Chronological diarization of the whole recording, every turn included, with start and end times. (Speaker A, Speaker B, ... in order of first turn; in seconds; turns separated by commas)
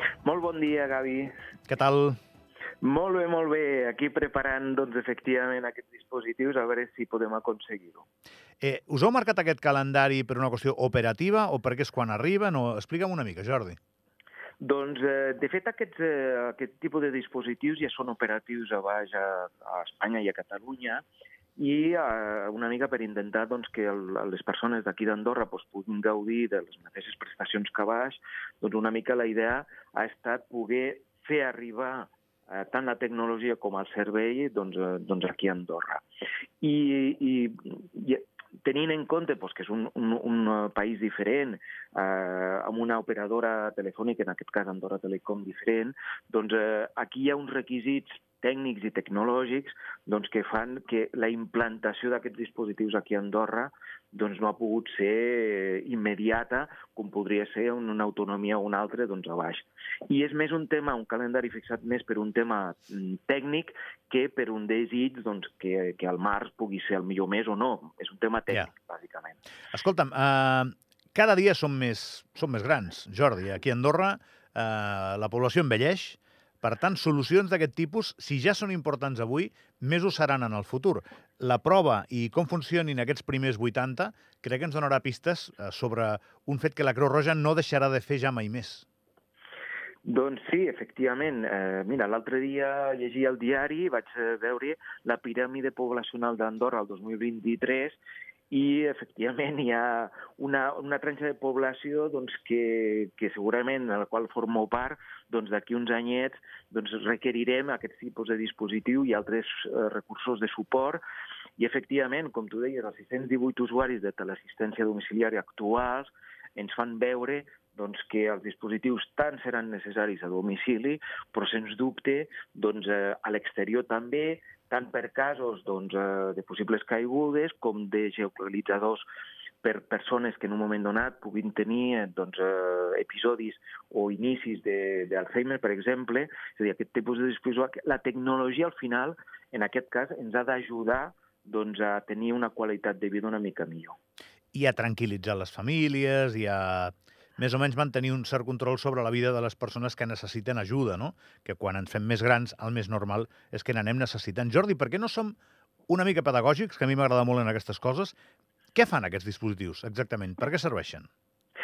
Speaker A: 0.2-1.3, Speaker B: 1.7-2.2, Speaker A: 2.8-8.1, Speaker B: 8.6-13.8, Speaker A: 14.6-21.0, Speaker A: 21.6-36.0, Speaker A: 36.6-69.4, Speaker B: 69.7-88.8, Speaker A: 90.0-98.0, Speaker A: 98.5-111.0, Speaker A: 111.6-129.1, Speaker A: 129.6-144.0, Speaker B: 144.5-155.3, Speaker B: 155.9-158.2, Speaker B: 158.7-161.1